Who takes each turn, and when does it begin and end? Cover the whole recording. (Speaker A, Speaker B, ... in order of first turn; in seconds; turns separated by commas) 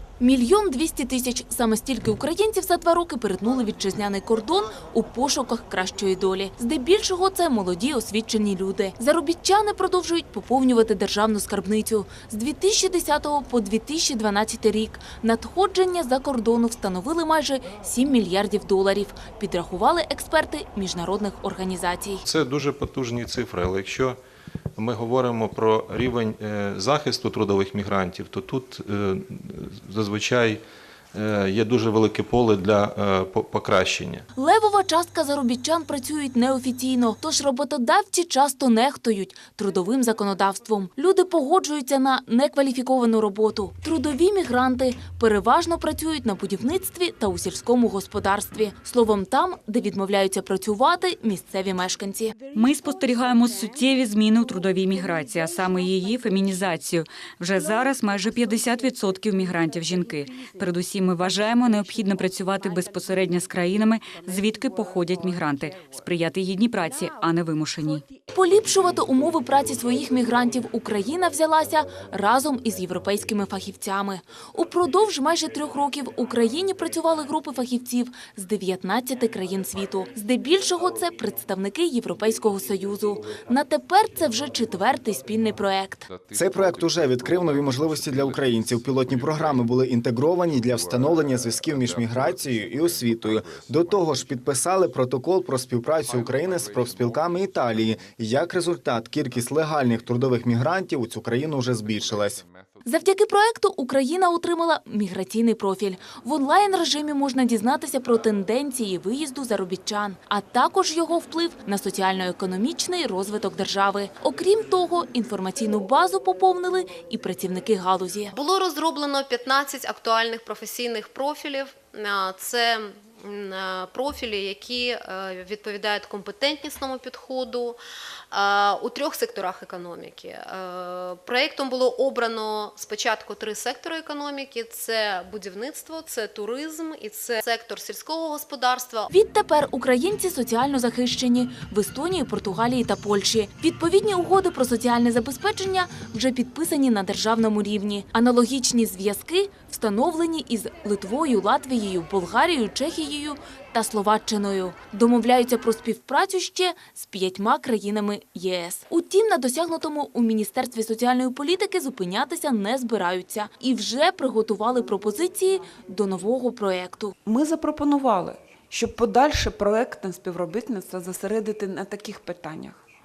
Speaker A: 0.2-22.2, Speaker B: 22.2-24.2, Speaker B: 24.8-30.6, Speaker B: 31.1-34.2, Speaker A: 34.4-52.3, Speaker C: 52.5-68.0, Speaker A: 68.3-86.1, Speaker D: 86.3-102.4, Speaker A: 102.8-118.3, Speaker E: 118.3-127.8, Speaker E: 128.3-139.1, Speaker A: 139.1-167.1, Speaker F: 167.2-172.8